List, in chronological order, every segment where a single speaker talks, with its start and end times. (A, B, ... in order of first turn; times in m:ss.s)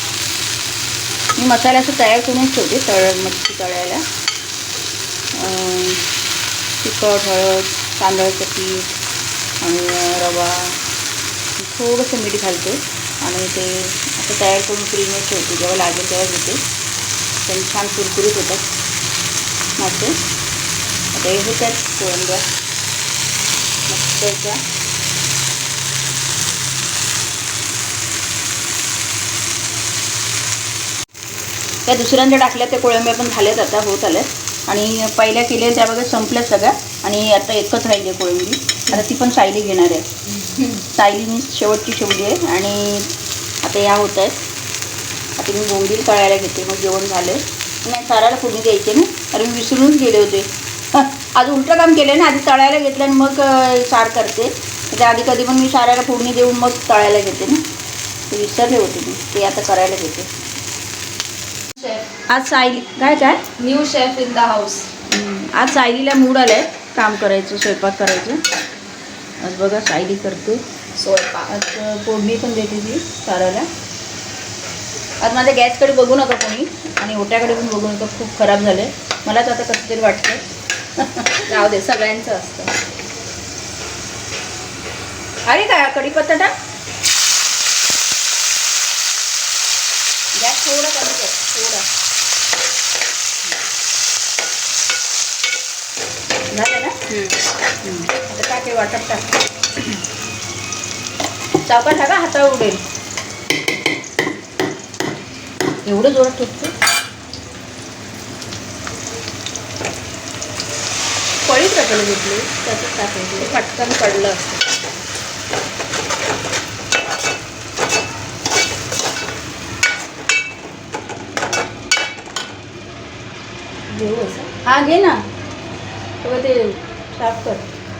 0:01.4-0:04.0 A
0:05.3-0:06.0 A
0:06.8-0:09.0 A
0:09.6-0:10.8 A
0:11.6-0:16.6 A
0:17.4-0:18.6 A
0:19.8-0:20.2 A
0:21.1-0:22.4 A
0:23.9-0:24.6 A
0:31.8-0:40.0 A
0:40.3-0:40.8 B
0:40.9-0:44.4 A
0:45.4-0:57.6 A
0:58.3-1:00.3 A
1:01.8-1:02.0 B
1:02.3-1:03.4 A
1:03.6-1:04.9 B
1:05.1-1:08.4 A
1:09.4-1:10.6 A
1:11.0-1:11.5 B
1:11.5-1:13.7 A
1:15.2-1:20.4 A
1:21.0-1:21.5 A
1:21.4-1:22.8 B
1:25.5-1:26.5 A
1:30.3-1:31.8 A
1:36.5-1:36.9 A
1:37.1-1:37.4 B
1:37.8-1:39.2 A
1:41.6-1:42.8 A
1:45.8-1:46.7 A
1:51.4-1:53.6 A
1:53.4-1:54.6 B
2:03.9-2:04.5 B
2:04.6-2:05.2 A
2:06.2-2:07.6 A